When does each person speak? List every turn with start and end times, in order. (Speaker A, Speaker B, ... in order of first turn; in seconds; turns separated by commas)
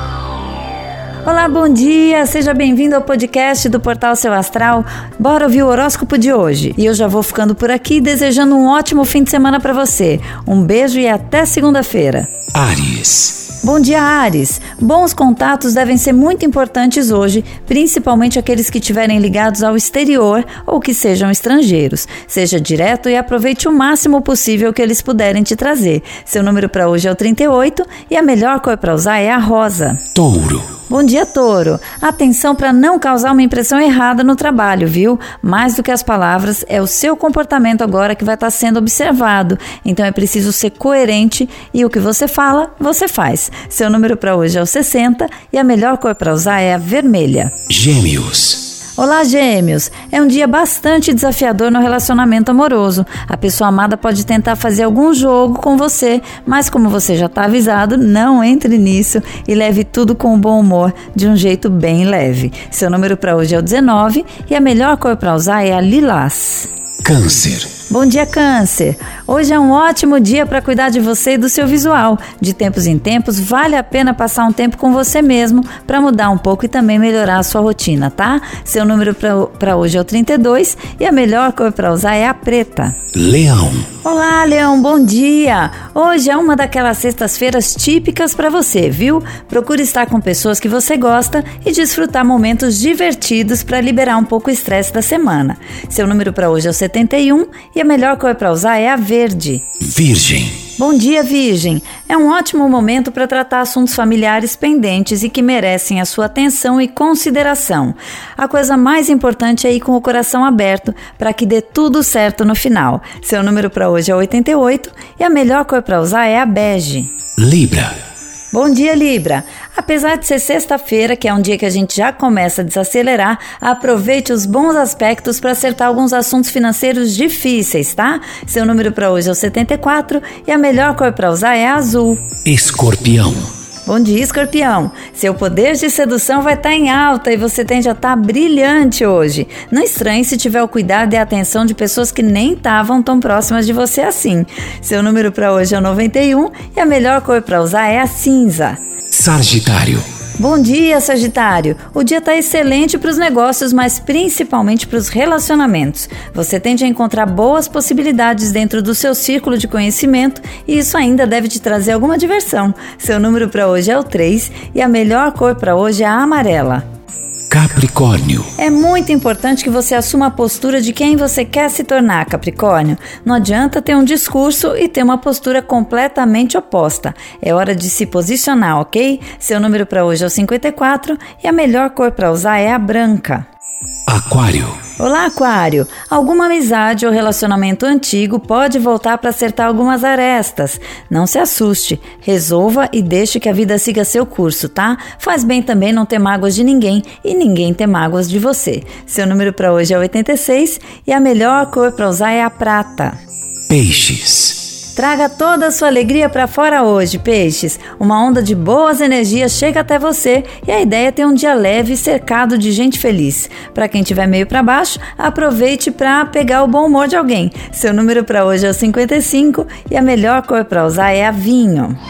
Speaker A: 1.2-12.3, Speaker B: 12.5-13.4, Speaker A: 13.6-30.0, Speaker B: 30.1-30.7, Speaker A: 30.9-47.6, Speaker B: 47.7-48.7, Speaker A: 49.0-66.7, Speaker B: 67.0-67.7, Speaker A: 67.9-83.0, Speaker B: 83.1-83.9, Speaker A: 84.0-99.6, Speaker B: 99.8-100.6, Speaker A: 100.8-117.1, Speaker B: 117.4-117.9, Speaker A: 118.5-132.3, Speaker B: 132.4-133.5, Speaker A: 133.8-148.8, Speaker B: 149.1-150.0, Speaker A: 150.4-166.8, Speaker B: 167.5-168.5, Speaker A: 168.6-183.4, Speaker B: 184.1-184.8, Speaker A: 185.0-203.2, Speaker B: 203.7-204.7, Speaker A: 204.9-222.0